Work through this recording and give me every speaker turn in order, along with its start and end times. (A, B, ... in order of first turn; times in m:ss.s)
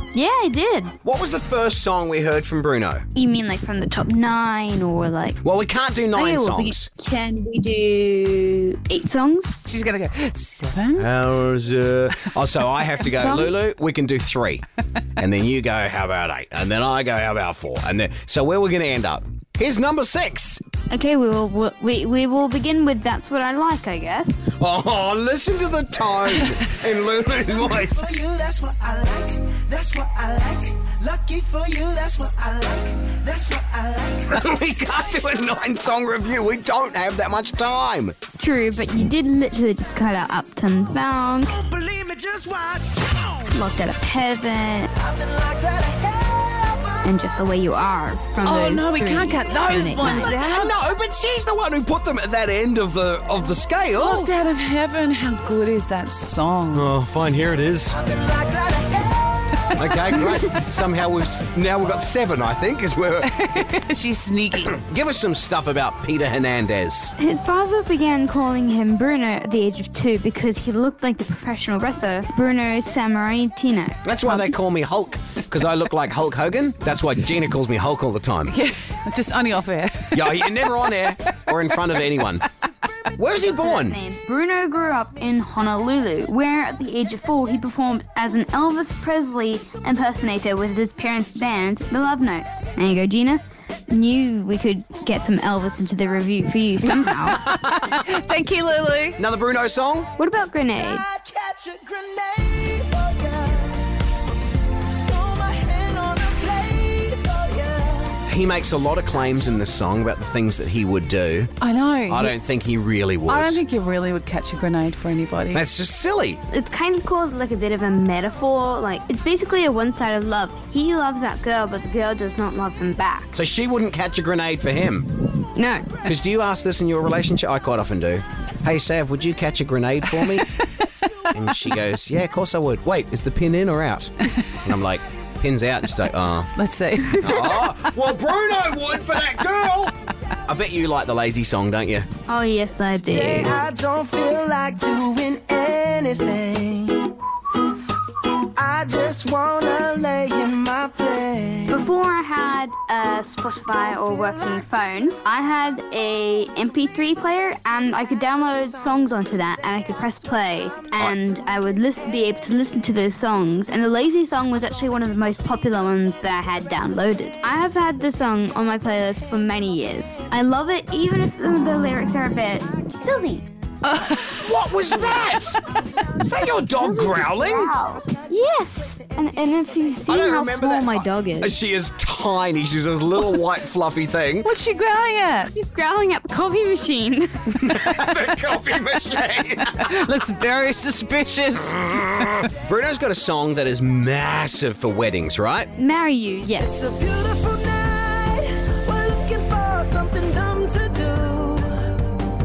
0:00.1-0:00.9 A
0:01.0-0:03.0 B
0:03.1-0:05.4 A
0:05.4-0:06.9 B
0:06.1-0:09.6 A
0:09.6-0:11.1 C
0:11.0-0:14.6 B
0:13.2-0:13.5 A
0:15.2-0:20.6 B
0:20.9-0:24.5 A
0:24.6-0:28.1 B
0:27.8-0:34.5 D
0:34.3-0:38.1 B
0:38.4-0:41.6 A
0:41.5-0:43.5 D
0:43.5-0:44.9 A
0:45.0-0:47.1 D
0:47.0-0:50.3 A
0:48.4-0:50.9 C
0:50.0-0:54.3 B
0:54.0-0:56.9 C
0:56.7-0:58.0 B
0:58.0-0:59.7 D
0:59.7-1:03.3 B
1:03.2-1:04.7 C
1:04.6-1:07.1 B
1:07.2-1:14.1 A
1:14.0-1:18.5 B
1:18.5-1:20.7 C
1:20.1-1:22.4 B
1:23.2-1:24.0 B
1:23.5-1:37.5 A
1:37.3-1:39.2 C
1:39.2-1:40.1 B
1:40.2-1:41.0 A
1:40.8-1:43.9 D
1:45.0-1:48.2 D
1:48.2-1:51.5 B
1:51.6-1:52.3 C
1:52.1-1:53.6 B
1:53.3-1:55.6 C
1:55.5-1:56.4 B
1:56.5-2:03.3 A
2:03.3-2:05.1 B
2:05.5-2:06.0 A
2:06.0-2:10.5 B
2:11.3-2:16.5 B
2:16.6-2:18.0 C
2:17.2-2:20.0 B
2:20.5-2:22.1 B
2:22.3-2:23.5 A
2:23.0-2:27.1 D
2:28.4-2:31.8 D
2:31.7-2:53.4 A
2:53.9-2:55.6 C
2:54.4-2:57.7 B
2:56.7-3:01.5 A
3:00.0-3:04.5 B
3:04.4-3:05.5 C
3:05.5-3:07.7 A
3:07.5-3:10.0 B
3:09.8-3:12.5 C
3:11.8-3:15.7 B
3:15.8-3:16.7 A
3:16.6-3:22.0 D